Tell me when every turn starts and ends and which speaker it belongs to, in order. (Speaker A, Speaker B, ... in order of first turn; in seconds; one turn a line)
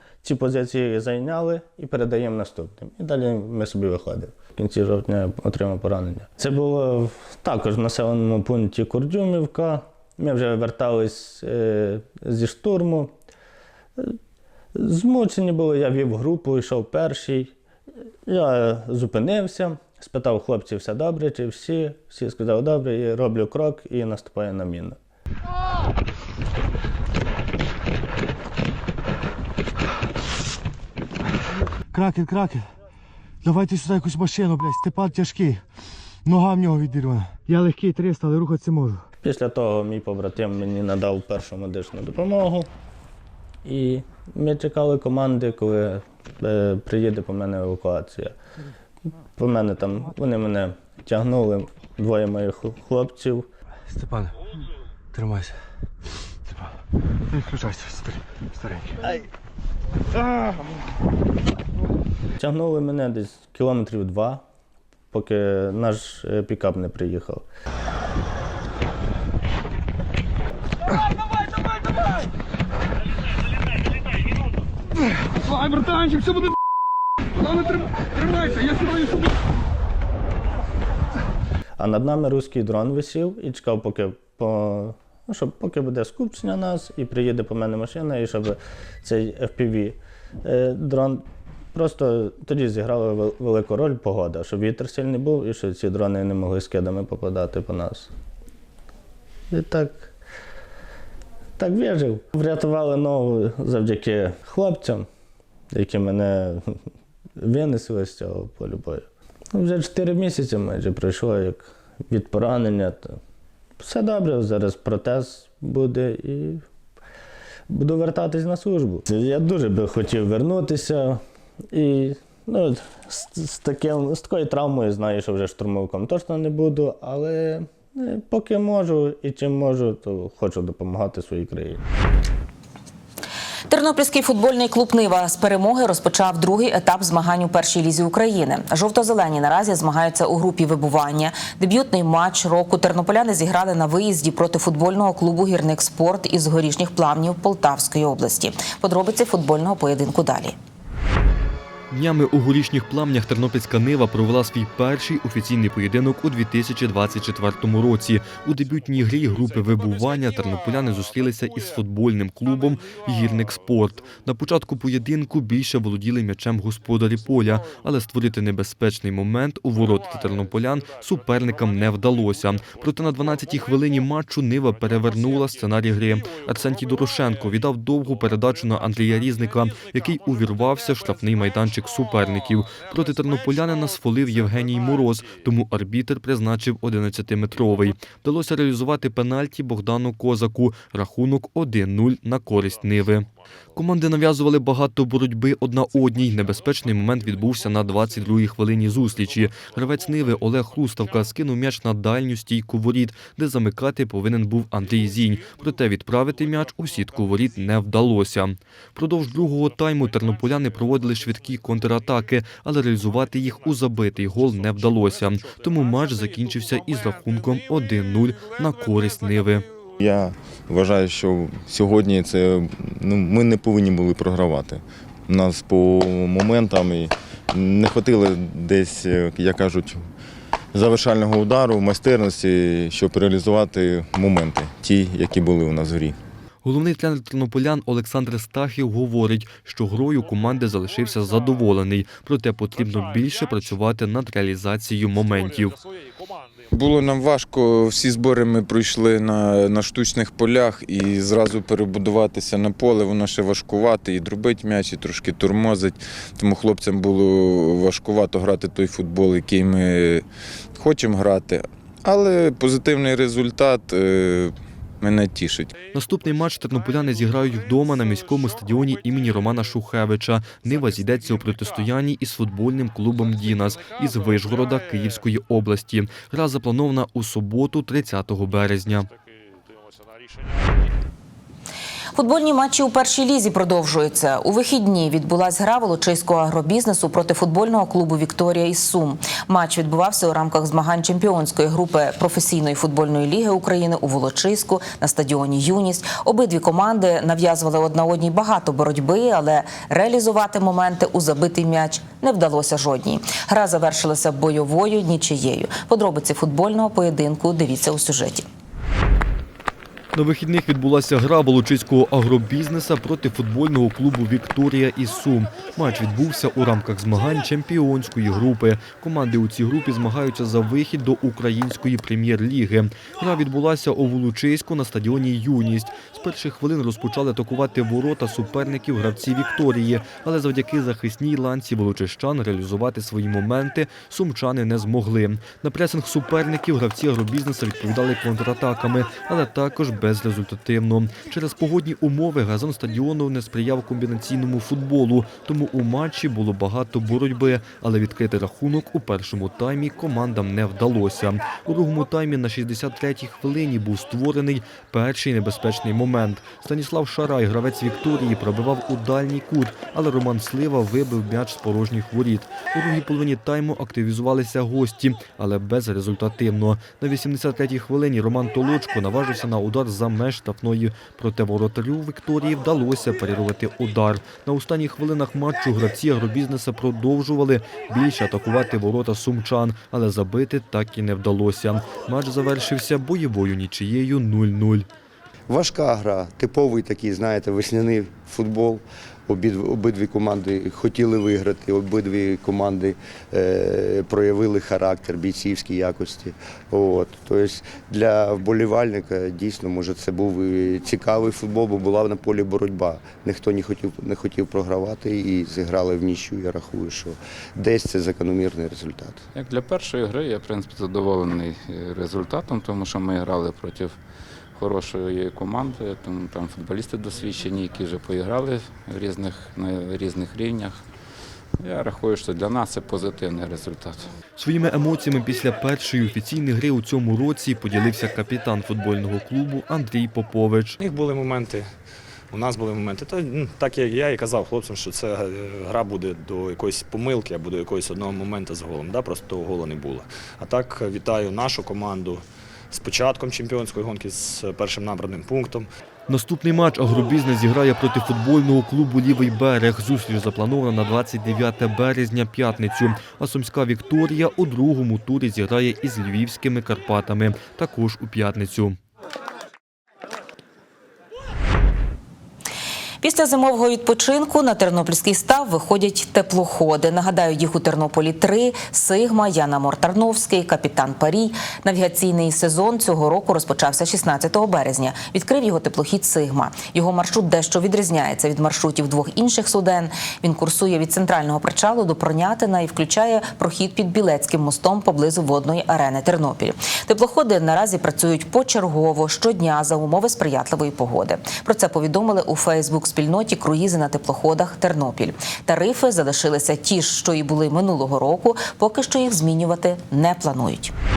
Speaker A: 0.2-13.1
Speaker A: 14.8-17.5
Speaker A: 18.3-25.0
Speaker B: 31.9-32.7
Speaker B: 33.4-35.6
Speaker B: 36.3-39.0
Speaker A: 39.2-42.7
Speaker A: 43.6-48.3
Speaker A: 49.4-53.5
Speaker B: 53.9-54.3
Speaker B: 55.1-55.5
Speaker B: 57.5-58.1
Speaker B: 58.6-58.9
Speaker A: 62.4-64.4
Speaker A: 65.1-67.4
Speaker A: 81.8-91.2
Speaker A: 91.8-98.1
Speaker A: 99.5-100.1
Speaker A: 101.6-105.1
Speaker A: 105.7-106.8
Speaker A: 107.4-113.2
Speaker A: 113.8-116.6
Speaker A: 117.7-121.2
Speaker A: 121.7-131.8
Speaker C: 133.7-150.6
Speaker D: 151.9-219.7
Speaker E: 220.0-230.1
Speaker E: 230.7-236.2
Speaker D: 236.6-245.8
Speaker F: 246.7-260.2
Speaker F: 260.8-265.7
Speaker D: 265.9-279.1
Speaker C: 282.1-308.5
Speaker D: 310.1-384.9
Speaker G: 385.5-409.2
Speaker H: 409.3-414.0
Speaker H: 414.5-420.9
Speaker H: 421.6-424.1
Speaker D: 424.4-430.8
Speaker I: 430.8-431.7
Speaker I: 432.3-445.7
Speaker D: 446.1-458.8
Speaker C: 463.0-500.7